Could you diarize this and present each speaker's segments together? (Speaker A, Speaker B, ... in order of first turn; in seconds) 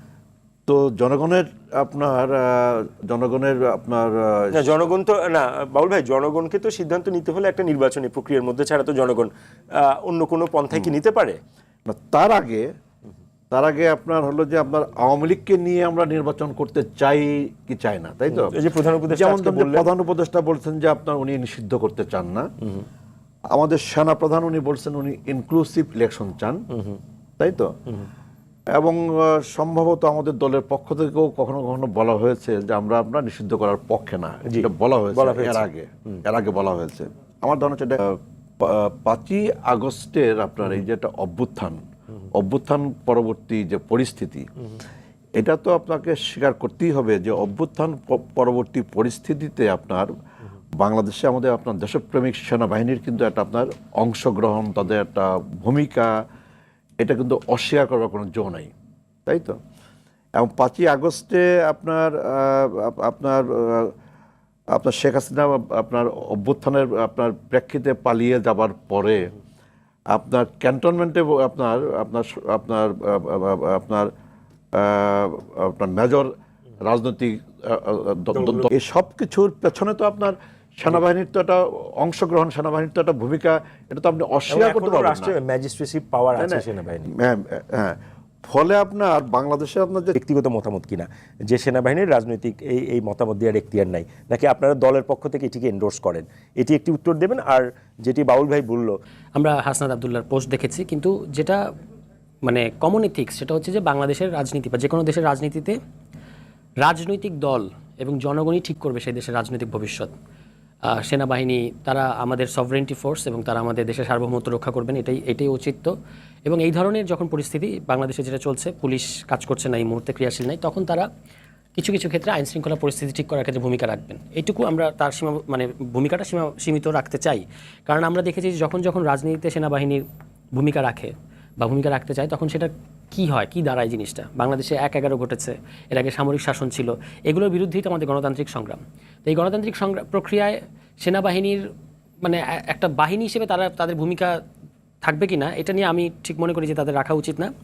Speaker A: 0.7-4.6, 11.9-12.7, 13.5-18.6, 19.1-22.5, 23.5-26.6, 27.4-27.8, 28.8-41.8, 42.3-44.5, 45.4-50.1, 50.8-56.2, 57.0-58.7, 59.3-59.6, 60.4-64.0, 64.7-69.3, 70.1-74.1, 74.7-85.3, 86.4-90.2
Speaker B: 4.5-11.4, 18.3-19.9, 26.7-27.0, 34.5-36.2, 78.3-78.7, 84.5-87.1, 90.2-99.0
Speaker C: 99.4-101.7, 102.5-105.8, 106.8-110.1, 110.9-115.9, 116.5-121.1, 121.8-141.7, 142.2-144.4, 145.0-147.5